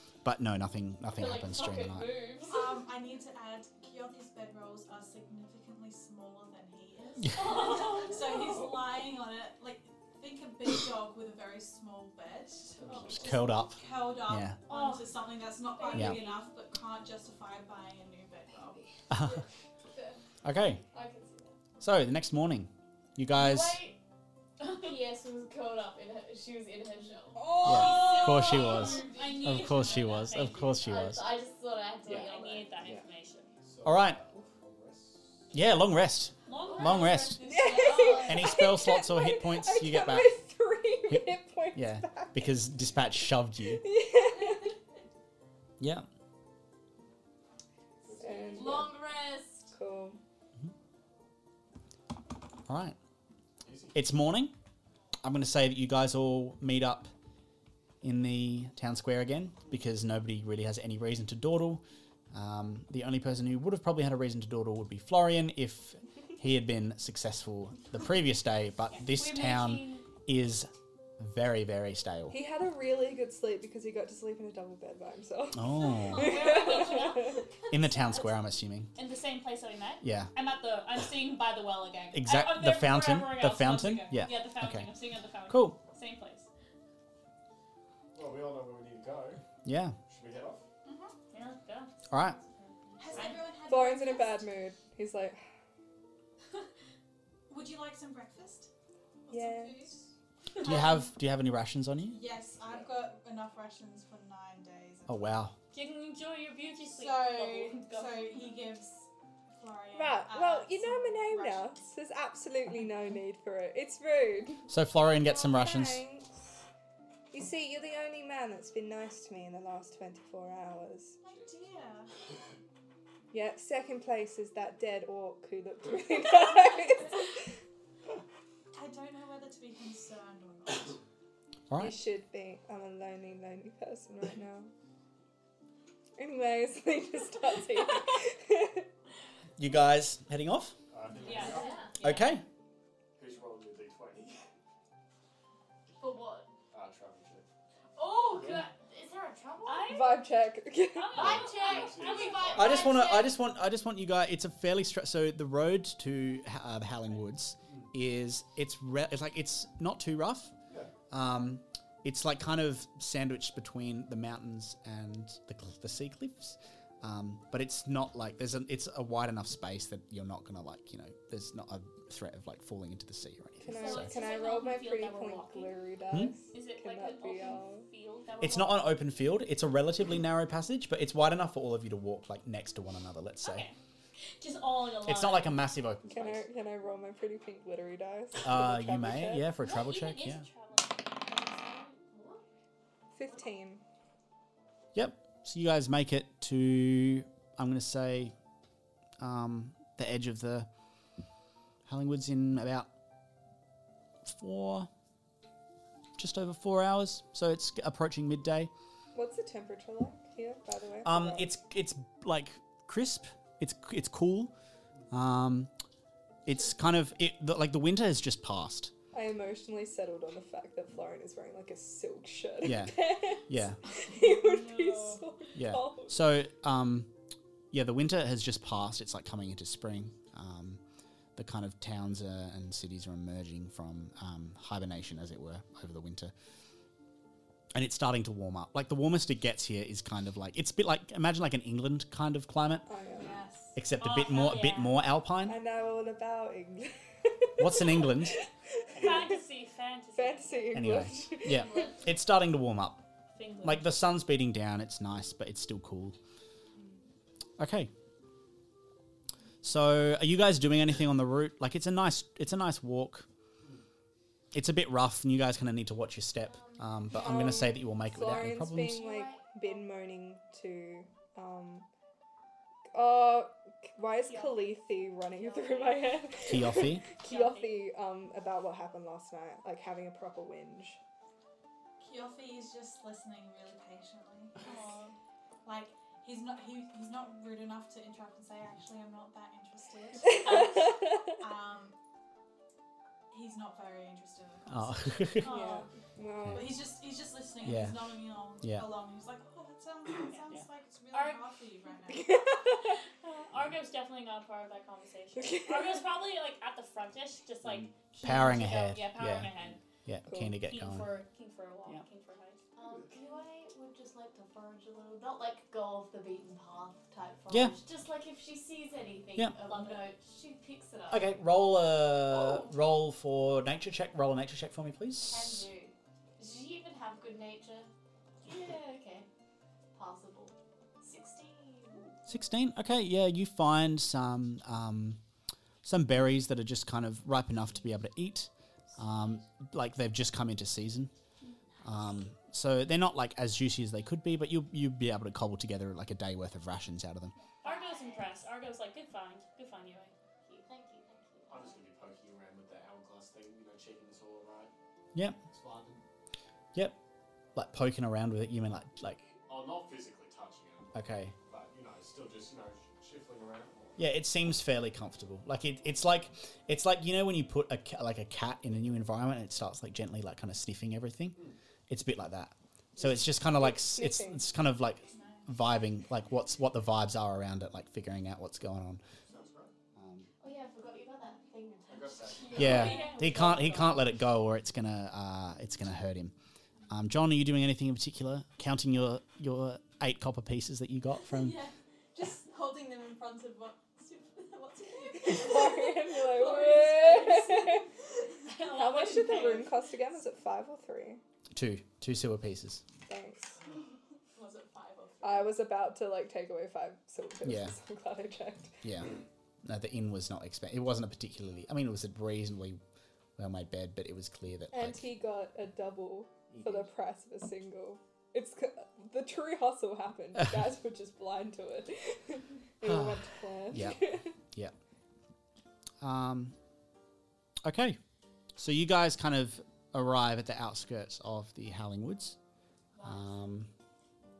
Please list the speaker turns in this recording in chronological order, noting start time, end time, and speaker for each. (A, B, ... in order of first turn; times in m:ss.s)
0:00.2-0:02.2 A
0:01.1-0:02.7 B
0:02.4-0:18.8 C
0:07.4-0:08.3 D
0:13.1-0:14.6 A
0:14.7-0:16.3 D
0:15.9-0:16.4 B
0:15.9-0:16.2 A
0:19.1-0:19.4 A
0:20.4-0:20.8 A
0:20.9-0:21.5 B
0:21.8-0:23.8 A
0:23.3-0:24.0 B
0:24.6-0:29.3 B
0:27.4-0:28.1 E
0:27.6-0:30.0 F
0:27.6-0:31.3 A
0:27.7-0:31.0 D
0:30.8-0:32.8 B
0:32.1-0:33.5 D
0:33.6-0:35.5 G
0:33.8-0:34.2 A
0:35.5-0:37.4 A
0:36.4-0:37.4 D
0:36.6-0:38.5 B
0:36.7-0:38.6 F
0:37.5-0:42.5 E
0:38.2-0:40.4 A
0:41.1-0:43.8 A
0:43.7-0:44.7 E
0:45.8-0:46.1 A
0:48.0-0:49.0 G
0:48.2-0:49.0 E
0:48.5-0:49.7 B
0:49.7-0:50.2 E
0:52.7-0:53.0 A
0:53.6-0:54.0 G
0:53.9-0:54.5 A
0:55.2-0:57.1 A
0:58.0-1:12.4 A
1:09.0-1:10.1 D
1:12.3-1:17.5 E
1:15.5-1:16.6 A
1:16.1-1:17.5 D
1:17.7-1:18.9 A
1:18.9-1:26.5 D
1:20.0-1:20.3 A
1:22.1-1:24.9 A
1:25.5-1:25.8 A
1:28.1-1:29.4 G
1:29.6-1:30.0 A
1:30.1-1:30.6 G
1:30.8-1:31.1 C
1:31.3-1:33.3 D
1:32.1-1:32.4 A
1:33.0-1:34.5 C
1:33.6-1:35.4 E
1:37.5-1:38.7 C
1:39.3-1:40.0 C
1:39.3-1:39.9 E
1:40.6-1:41.1 C
1:40.6-1:42.2 A
1:42.1-1:45.2 C
1:45.1-1:45.5 A
1:45.7-1:48.5 D
1:46.9-1:51.8 C
1:49.9-1:56.3 E
1:54.7-1:56.0 A
1:57.3-2:01.2 E
2:01.2-2:02.1 C
2:03.3-2:07.3 E
2:08.7-2:11.0 C
2:11.7-2:12.0 A
2:11.8-2:14.7 E
2:16.2-2:18.9 E
2:19.6-2:20.8 A
2:20.9-2:21.8 G
2:21.2-2:22.4 D
2:21.3-2:21.9 B
2:22.0-2:22.4 A
2:23.2-2:24.4 G
2:26.0-2:26.5 B
2:26.7-2:27.4 G
2:28.0-2:28.5 F
2:28.0-2:30.0 B
2:28.4-2:28.6 G
2:29.6-2:30.3 D
2:29.9-2:31.3 E
2:30.9-2:32.9 D
2:31.1-2:33.4 B
2:31.3-2:32.9 G
2:32.6-2:40.5 A
2:40.7-2:40.9 G
2:41.1-2:54.1 A
2:53.6-2:57.8 E
2:53.7-2:55.8 D
2:56.5-2:58.9 D
2:58.4-3:03.7 A
3:03.4-3:03.8 D
3:04.4-3:05.6 D
3:05.0-3:06.4 A
3:06.1-3:09.4 E
3:08.4-3:10.4 A
3:09.6-3:12.0 D
3:11.3-3:12.4 B
3:13.1-3:13.8 E
3:14.9-3:18.3 A
3:19.2-3:20.7 A
3:21.8-3:22.9 A
3:24.2-3:24.9 A
3:26.2-3:28.7 A
3:29.1-3:31.5 E
3:31.0-3:34.5 A
3:35.1-3:35.7 A
3:36.4-3:38.9 A
3:39.1-3:46.2 E
3:42.6-3:43.0 A
3:43.5-3:43.8 A
3:44.0-3:45.2 D
3:45.5-3:47.1 A
3:47.7-3:50.8 A
3:51.4-3:56.3 A
3:57.7-4:02.9 A
4:02.9-4:03.4 E
4:03.2-4:03.8 C
4:03.7-4:05.6 A
4:04.0-4:05.0 D
4:05.4-4:09.4 E
4:07.6-4:08.4 A
4:09.0-4:10.8 D
4:10.1-4:11.8 E
4:10.7-4:13.0 A
4:11.5-4:11.9 B
4:13.3-4:13.9 D
4:13.6-4:16.2 A
4:17.6-4:17.9 A
4:19.6-4:23.3 A
4:24.5-4:29.0 A
4:26.4-4:26.9 B
4:27.1-4:31.9 E
4:28.9-4:29.8 B
4:32.9-4:41.0 E
4:34.3-4:34.8 D
4:35.3-4:37.8 D
4:36.4-4:37.0 A
4:42.0-4:52.0 C
4:53.3-4:55.4 C
4:54.7-4:55.5 A
4:55.4-4:55.9 D
4:55.4-4:56.8 E
4:56.4-4:56.7 A
4:56.5-5:02.5 C
4:57.6-4:58.1 A
4:58.6-4:58.9 A
5:00.2-5:00.5 D
5:01.1-5:01.4 D
5:02.1-5:02.9 E
5:02.9-5:09.8 D
5:05.4-5:06.0 E
5:08.2-5:09.5 A
5:10.0-5:11.1 A
5:10.3-5:10.6 E
5:10.6-5:12.6 D
5:12.7-5:21.4 B
5:17.5-5:17.8 A
5:19.7-5:20.1 D
5:21.1-5:25.7 A
5:22.2-5:22.7 B
5:25.2-5:27.9 B
5:28.4-5:29.3 B
5:29.9-5:32.2 B
5:32.3-5:35.2 A
5:35.8-5:41.1 A
5:39.0-5:39.4 B
5:41.7-5:42.0 B
5:41.8-5:47.3 A
5:47.6-5:50.1 D
5:47.6-5:48.5 B
5:50.4-5:51.8 B
5:51.5-5:54.7 G
5:55.4-5:56.0 G
5:57.5-5:59.3 A
5:59.5-6:00.9 G
6:00.9-6:01.3 A
6:01.4-6:04.0 G
6:04.0-6:19.0 A
6:13.5-6:14.4 E
6:15.1-6:15.5 C
6:19.2-6:19.7 G
6:20.0-6:20.3 A
6:20.4-6:23.3 B
6:21.9-6:22.9 G
6:22.4-6:23.2 F
6:22.6-6:26.3 A
6:22.6-6:24.0 D
6:26.9-6:31.6 A
6:31.3-6:37.8 F
6:35.2-6:37.8 E
6:38.5-6:39.8 D
6:38.6-6:41.2 E
6:41.5-6:42.8 A
6:43.1-6:43.6 E
6:44.3-6:45.6 F
6:45.2-6:48.8 E
6:47.4-6:47.7 A
6:48.8-6:52.8 A
6:53.4-6:55.1 A
6:54.7-7:04.3 E
6:56.5-6:56.9 A
7:02.8-7:04.7 A
7:06.0-7:06.5 A
7:07.6-7:08.0 A
7:08.6-7:12.4 A
7:12.9-7:13.4 B
7:13.0-7:13.7 A